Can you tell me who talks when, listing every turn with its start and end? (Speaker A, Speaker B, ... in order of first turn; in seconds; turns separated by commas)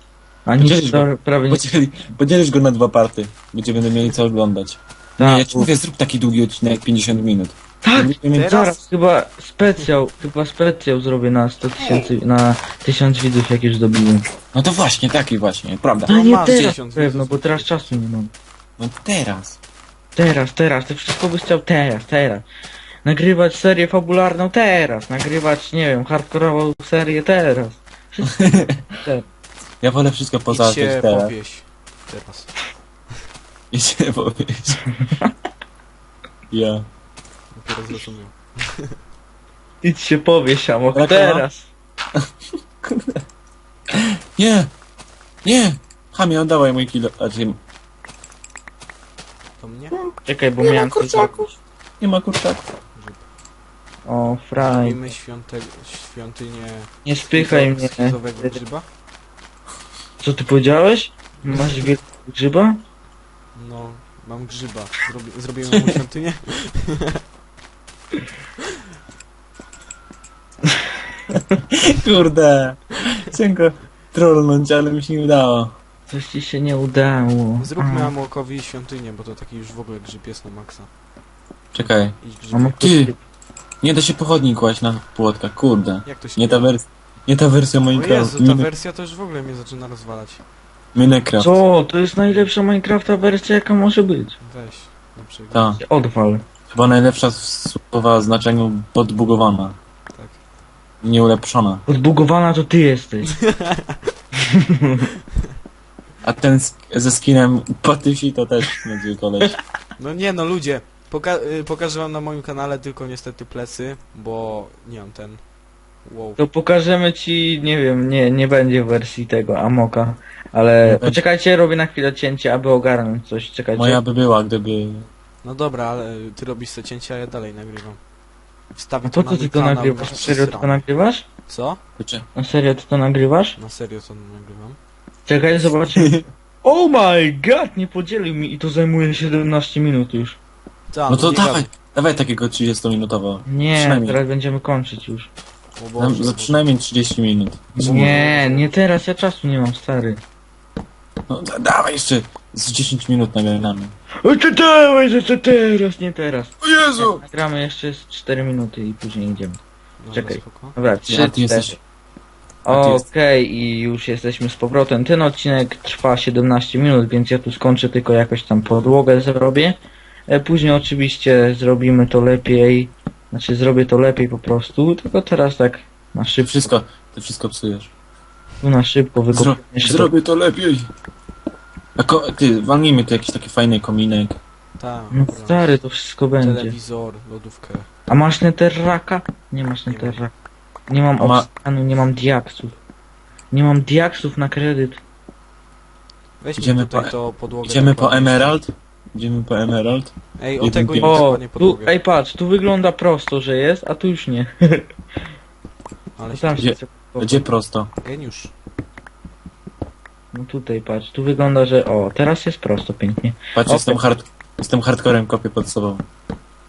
Speaker A: 0.5-1.7, Speaker B: 0.6-8.5, Speaker A: 5.2-5.7, Speaker A: 7.8-14.2, Speaker C: 8.3-8.8, Speaker B: 14.5-16.7, Speaker C: 16.1-18.0, Speaker A: 16.1-18.3, Speaker B: 18.8-19.6, Speaker A: 20.1-22.4, Speaker A: 23.0-29.2, Speaker B: 28.4-28.8, Speaker B: 29.8-31.3, Speaker C: 30.5-32.5, Speaker B: 33.7-34.8, Speaker A: 35.0-35.3, Speaker B: 36.5-36.9, Speaker C: 37.5-39.0, Speaker A: 39.8-41.7, Speaker B: 40.9-41.4, Speaker B: 42.8-43.2, Speaker B: 43.9-44.7, Speaker B: 45.4-47.6, Speaker C: 49.6-50.0, Speaker A: 50.2-51.5, Speaker B: 50.6-52.6, Speaker C: 52.9-53.2, Speaker A: 54.0-55.1, Speaker C: 54.6-58.9, Speaker A: 57.0-58.6, Speaker A: 60.2-62.8, Speaker C: 63.5-67.2, Speaker B: 65.7-66.0, Speaker B: 71.7-75.8, Speaker A: 76.1-78.1, Speaker C: 77.6-80.9, Speaker B: 81.7-82.1, Speaker C: 81.8-82.9, Speaker A: 82.5-83.2, Speaker B: 82.8-83.1, Speaker B: 83.8-88.7, Speaker C: 86.0-86.7, Speaker C: 87.9-90.4, Speaker B: 90.9-91.6, Speaker A: 91.4-94.4, Speaker C: 94.4-95.7, Speaker B: 95.5-95.8, Speaker A: 95.8-96.4, Speaker B: 96.7-99.8, Speaker C: 100.1-100.4, Speaker B: 101.0-101.8, Speaker A: 101.9-103.3, Speaker C: 103.3-104.0, Speaker A: 104.4-105.1, Speaker B: 106.2-109.6, Speaker C: 110.0-115.4, Speaker C: 116.0-116.4, Speaker A: 116.4-124.0, Speaker B: 120.8-121.2, Speaker B: 123.7-125.1, Speaker C: 125.4-128.0, Speaker C: 128.8-130.8, Speaker A: 129.1-131.3, Speaker C: 131.5-131.8, Speaker B: 132.0-132.2, Speaker A: 132.3-133.6, Speaker C: 133.6-134.8, Speaker A: 135.3-140.4, Speaker B: 135.9-136.2, Speaker C: 140.9-141.7, Speaker B: 141.1-144.2, Speaker A: 143.5-145.3, Speaker C: 145.8-146.7, Speaker B: 146.0-148.2, Speaker A: 147.8-150.2, Speaker C: 147.8-148.8, Speaker B: 151.3-153.9, Speaker A: 154.2-159.6, Speaker B: 156.6-157.2, Speaker C: 160.0-160.8, Speaker A: 160.1-161.8, Speaker B: 161.1-161.8, Speaker A: 162.7-176.7, Speaker B: 162.7-163.1, Speaker B: 176.4-177.9, Speaker A: 178.6-180.1, Speaker B: 179.3-180.9, Speaker B: 181.9-184.4, Speaker C: 184.8-185.8, Speaker A: 185.1-186.7, Speaker C: 186.4-187.9, Speaker A: 188.1-190.3, Speaker C: 189.9-190.2, Speaker A: 190.9-192.8, Speaker B: 191.2-191.5, Speaker A: 193.5-195.0, Speaker C: 196.4-198.6, Speaker B: 196.6-197.1, Speaker B: 197.6-201.2, Speaker C: 200.4-201.9, Speaker A: 201.0-204.9, Speaker C: 206.2-206.6, Speaker A: 206.3-207.4, Speaker B: 206.6-207.9, Speaker C: 208.0-208.5, Speaker A: 210.3-214.0, Speaker B: 213.6-216.1